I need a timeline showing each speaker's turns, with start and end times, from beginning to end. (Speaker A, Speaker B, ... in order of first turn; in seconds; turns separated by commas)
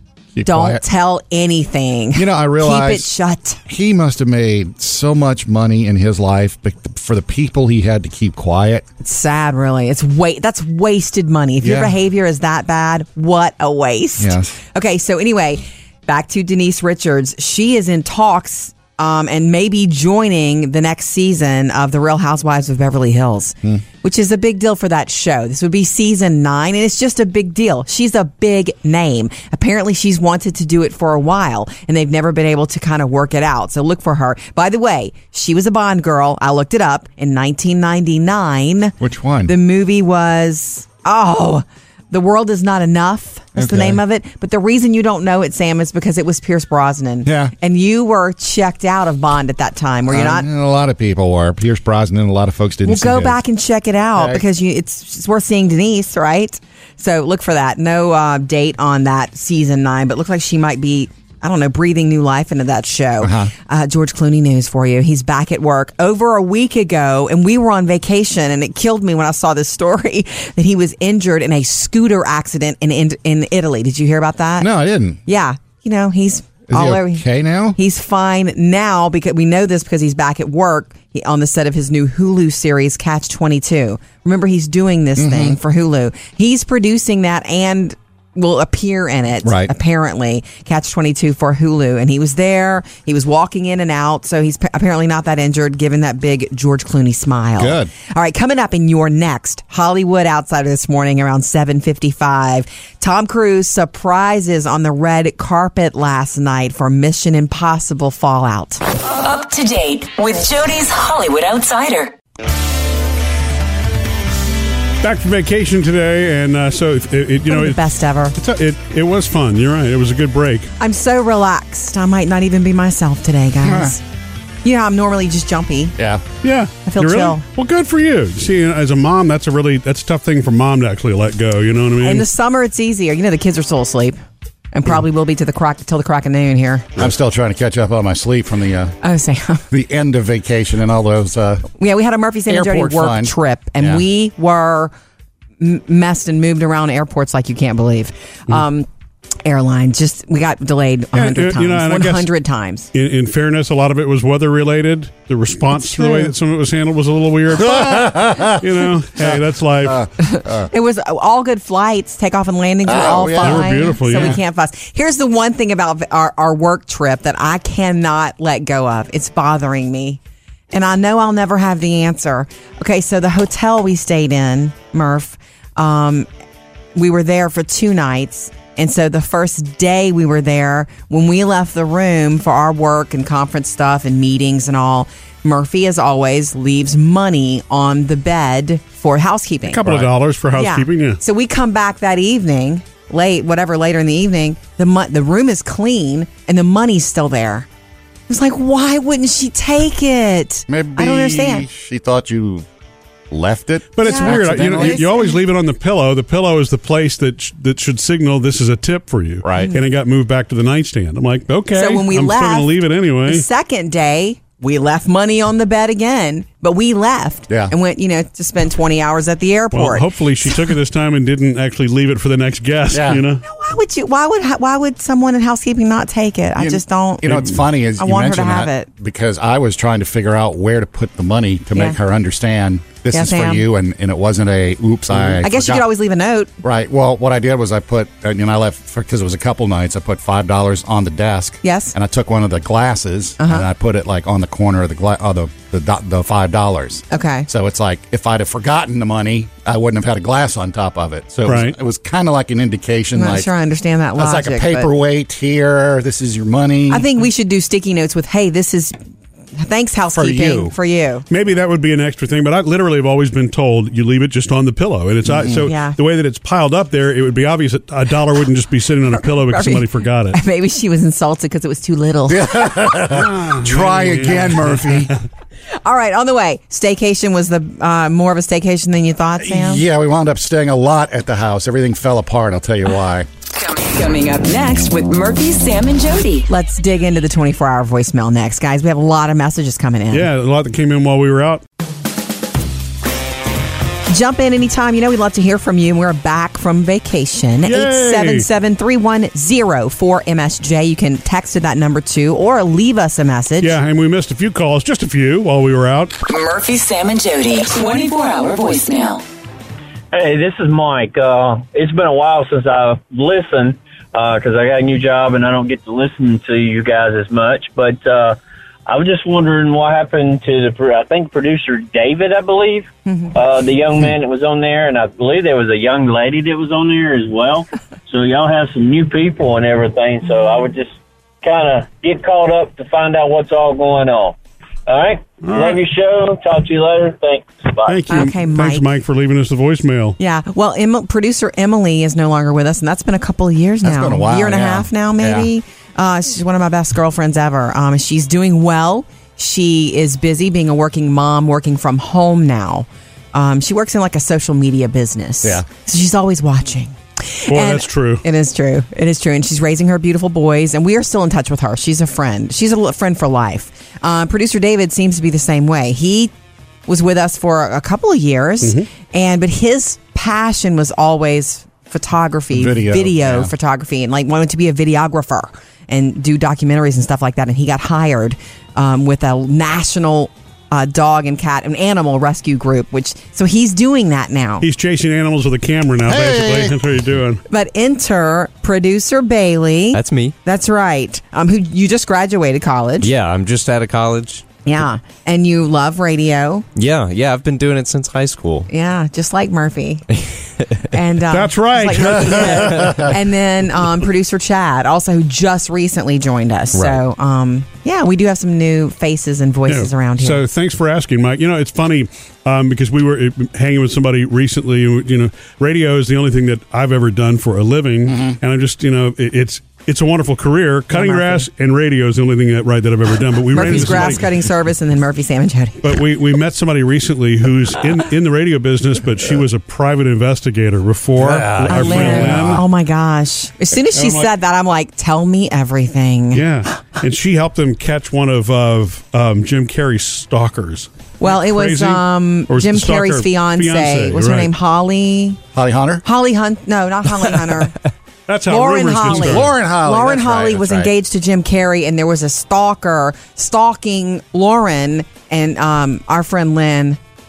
Speaker A: 0.3-0.8, Speaker B: 0.4-3.6, Speaker A: 2.1-3.1, Speaker A: 3.7-8.8, Speaker B: 9.0-50.5, Speaker A: 11.6-11.9, Speaker A: 14.2-14.5, Speaker A: 39.0-39.5, Speaker A: 43.5-44.0, Speaker A: 47.2-47.5, Speaker A: 50.1-53.4, Speaker B: 52.8-74.7, Speaker A: 54.2-54.4, Speaker A: 63.2-63.5, Speaker A: 74.6-75.2, Speaker B: 75.2-108.8, Speaker A: 76.7-77.8, Speaker A: 85.2-85.6, Speaker A: 89.4-89.7, Speaker A: 97.6-97.9, Speaker C: 109.0-112.1, Speaker D: 115.0-117.8, Speaker B: 117.5-118.3, Speaker D: 118.3-120.7, Speaker B: 120.8-124.0, Speaker A: 123.6-124.0, Speaker B: 124.6-126.0, Speaker A: 126.0-126.2, Speaker D: 126.4-132.3, Speaker B: 126.8-127.4, Speaker B: 132.0-134.2, Speaker B: 134.7-136.9, Speaker A: 137.0-138.9, Speaker B: 139.0-139.6, Speaker A: 139.7-141.7, Speaker B: 141.8-144.9, Speaker A: 142.5-144.0, Speaker B: 145.6-148.9, Speaker B: 149.4-152.9, Speaker D: 151.1-152.3, Speaker D: 152.9-160.1, Speaker B: 155.8-156.3, Speaker A: 157.6-160.7, Speaker B: 160.2-170.2, Speaker A: 162.8-164.3, Speaker D: 163.4-164.4, Speaker B: 170.7-176.3, Speaker B: 176.9-189.9, Speaker D: 189.6-191.2, Speaker B: 190.5-197.7, Speaker B: 198.3-201.7, Speaker A: 200.7-202.7, Speaker A: 203.3-205.1, Speaker D: 203.9-213.4, Speaker B: 204.0-205.4, Speaker A: 209.4-209.7, Speaker B: 211.7-212.7, Speaker B: 213.2-220.7, Speaker A: 217.5-217.7, Speaker D: 219.7-223.4, Speaker A: 222.9-223.2, Speaker B: 223.4-228.9, Speaker A: 226.6-235.8, Speaker B: 233.1-233.7, Speaker B: 235.2-236.5, Speaker A: 236.6-253.5, Speaker B: 241.6-241.9, Speaker B: 243.4-243.7, Speaker B: 247.1-247.5, Speaker D: 251.4-251.7, Speaker B: 253.1-254.9, Speaker A: 254.2-257.1, Speaker B: 256.9-259.0, Speaker B: 259.6-261.2, Speaker A: 260.1-260.7, Speaker D: 261.3-270.4, Speaker A: 265.3-265.6, Speaker B: 265.6-266.0, Speaker B: 269.2-272.8, Speaker A: 272.3-275.1, Speaker D: 273.1-275.1, Speaker B: 275.8-279.8, Speaker A: 279.4-283.3, Speaker C: 283.5-286.5, Speaker B: 286.5-290.3, Speaker D: 290.1-291.6, Speaker B: 294.1-303.8, Speaker D: 297.6-298.5, Speaker D: 303.6-306.1, Speaker C: 306.2-309.2, Speaker E: 310.1-338.1, Speaker D: 335.4-335.8, Speaker D: 337.9-340.2, Speaker B: 338.1-338.9, Speaker B: 340.2-366.3, Speaker A: 343.8-345.5, Speaker D: 357.5-358.2, Speaker B: 366.9-384.6, Speaker D: 368.6-368.9, Speaker A: 372.5-373.5, Speaker D: 384.6-387.4, Speaker A: 386.0-386.8, Speaker B: 387.5-393.1, Speaker F: 389.9-390.3, Speaker F: 393.0-394.4, Speaker B: 394.6-396.6, Speaker F: 396.7-398.7, Speaker B: 398.7-400.1, Speaker B: 400.8-410.4, Speaker D: 401.3-403.0, Speaker A: 402.8-403.1, Speaker D: 409.7-424.4, Speaker A: 418.1-418.4, Speaker B: 420.9-421.5, Speaker B: 423.5-425.9, Speaker D: 425.8-432.6, Speaker A: 431.1-432.6, Speaker B: 431.7-436.5, Speaker D: 433.9-434.3, Speaker D: 436.3-444.5, Speaker B: 441.2-445.4, Speaker A: 445.5-446.0, Speaker B: 446.0-447.8, Speaker D: 448.3-449.5, Speaker B: 448.5-457.0, Speaker A: 449.1-450.9